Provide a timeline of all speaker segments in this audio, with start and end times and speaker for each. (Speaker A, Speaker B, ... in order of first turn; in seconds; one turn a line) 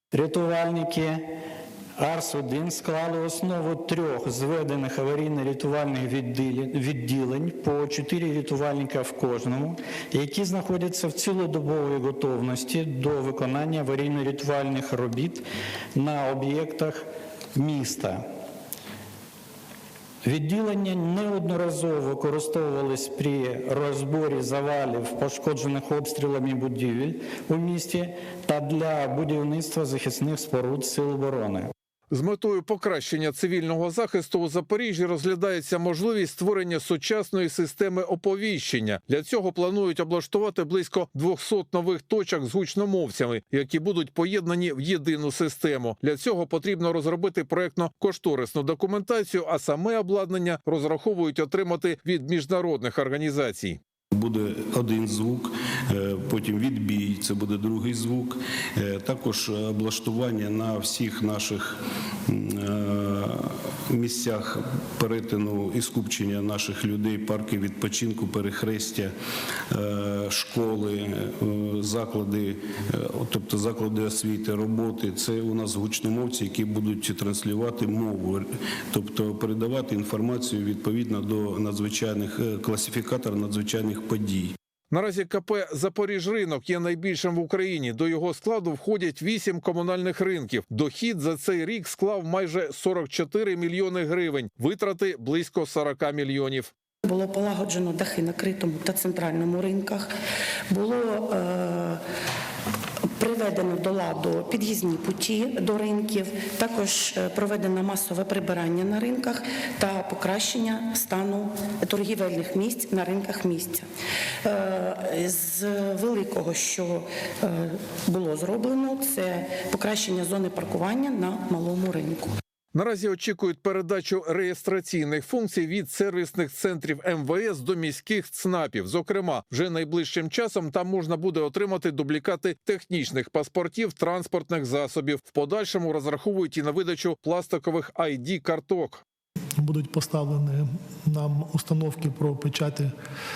Speaker A: 0.1-1.4
Speaker A: 2.0-15.4
Speaker A: 16.0-18.3
Speaker A: 20.2-31.7
Speaker B: 32.1-53.8
Speaker C: 54.1-69.1
Speaker C: 69.7-84.5
Speaker B: 84.9-96.7
Speaker D: 97.0-100.1
Speaker D: 100.7-102.0
Speaker D: 103.2-113.8
Speaker D: 114.4-122.3
Speaker B: 122.7-139.0
Speaker E: 139.6-142.9